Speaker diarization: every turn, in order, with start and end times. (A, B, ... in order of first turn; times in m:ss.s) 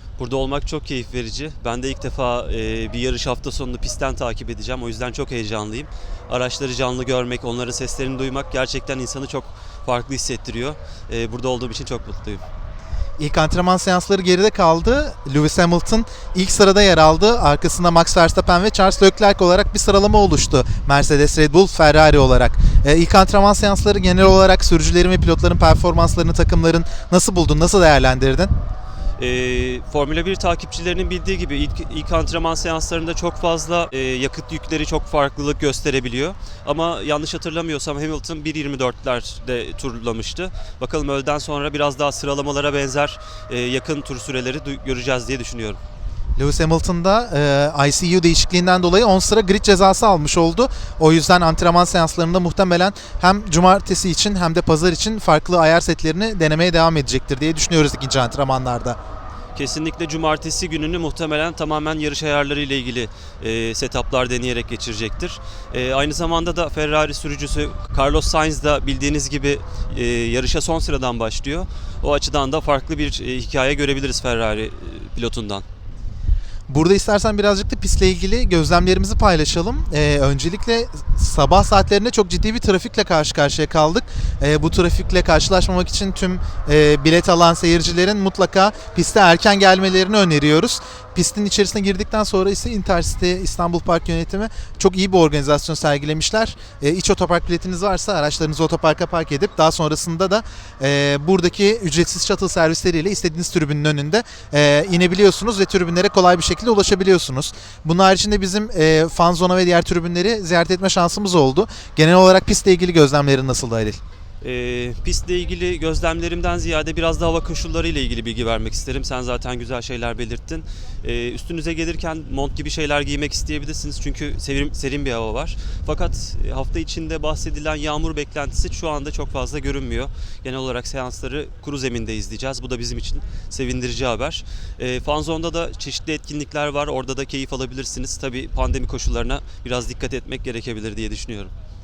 0:00.2-0:12.4 A
0:13.2-0:28.5 B
0:29.2-0:45.8 A
0:46.4-0:59.0 B
0:59.5-1:15.6 A
1:16.7-1:54.0 B
1:54.4-2:21.5 A